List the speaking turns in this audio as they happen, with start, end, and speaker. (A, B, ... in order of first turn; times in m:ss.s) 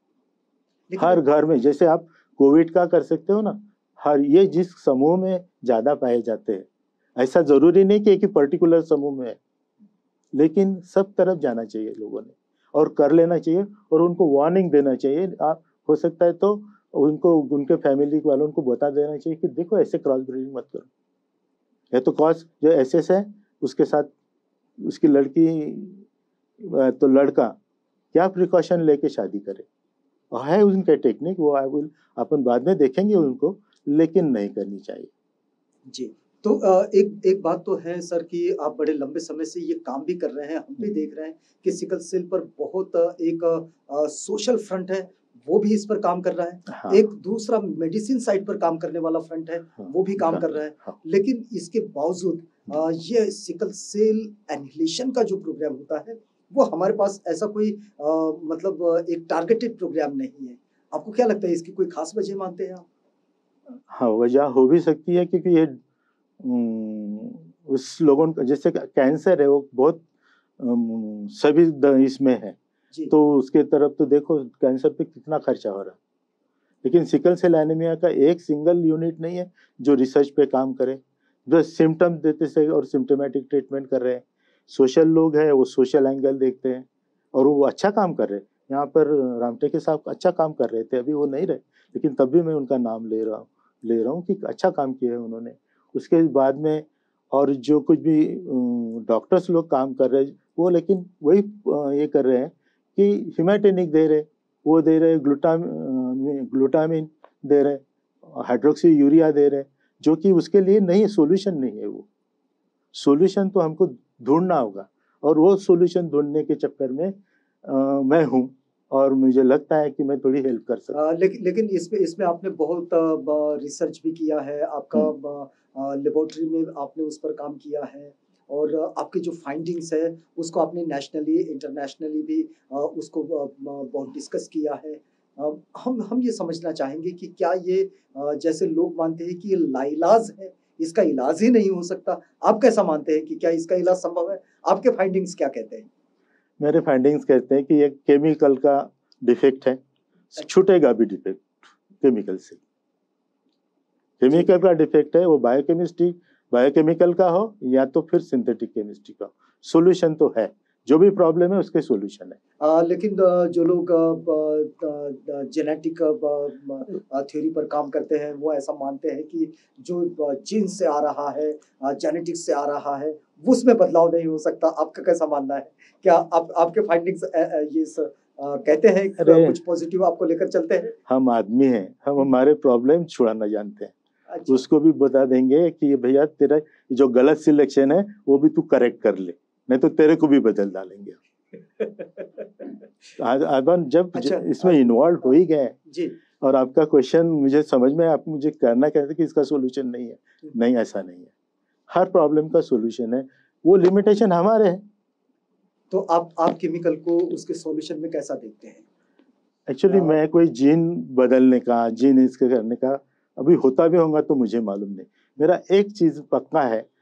0:00.9-0:01.2 A
0:01.0-0:06.6 B
0:07.2-0:09.4 B
0:10.3-0:20.9 B
0:21.9-0:24.1 B
0:24.8-0:26.0 B
0:26.6-0:27.5 B
0:28.1-0:29.6 B
0:30.3-0:35.1 B
0:35.9-1:02.9 A
0:46.7-0:47.0 B
0:49.8-0:50.4 B
1:03.9-1:05.8 B
1:06.4-1:10.0 B
1:10.6-1:12.6 B
1:13.1-1:16.0 B
1:16.8-1:52.1 B
1:52.9-1:57.1 B
1:57.6-2:01.0 B
2:00.9-2:25.9 A
2:26.6-2:29.8 B
2:30.3-2:32.6 B
2:34.2-2:42.4 B
2:42.6-3:01.0 A
2:59.2-2:59.6 B
3:01.1-3:03.9 B
3:04.3-3:04.6 A
3:04.5-3:11.2 B
3:11.8-3:12.7 A
3:13.2-3:15.8 B
3:14.2-3:14.8 A
3:15.9-3:16.2 A
3:16.4-3:21.3 B
3:21.9-3:24.8 B
3:25.9-3:28.8 A
3:29.7-3:36.8 B
3:29.9-3:30.2 A